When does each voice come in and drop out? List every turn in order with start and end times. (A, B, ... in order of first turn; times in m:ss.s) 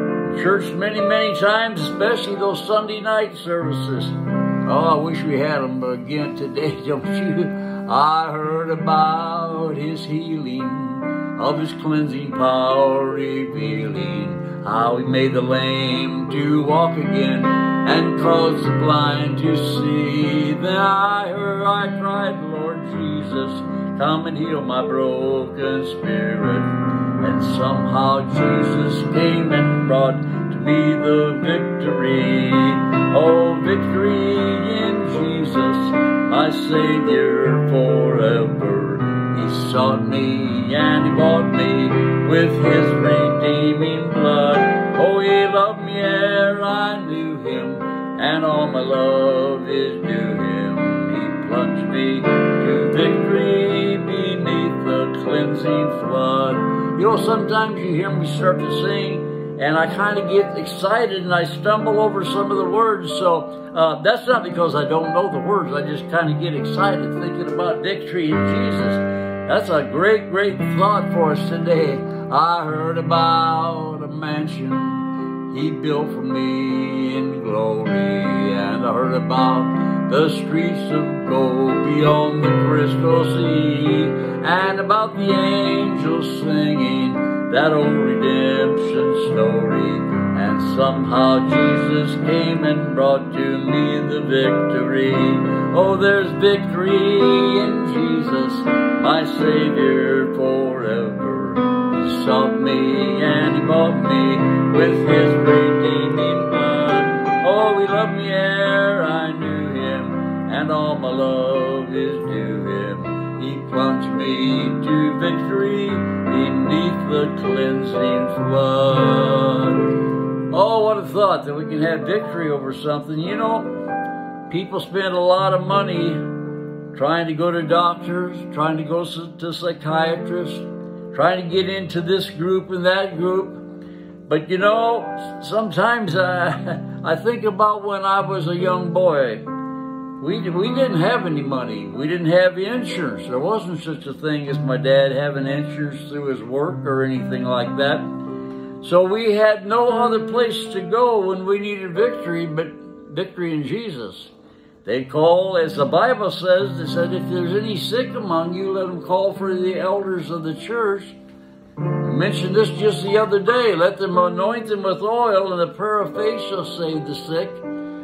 0:00.2-1:59.8 A
2:00.5-2:03.7 A
2:04.5-2:06.2 A
2:06.9-2:13.6 A
2:14.3-2:19.4 A
2:20.2-2:28.1 A
2:28.8-2:34.3 A
2:34.8-2:41.2 A
2:42.0-2:47.6 A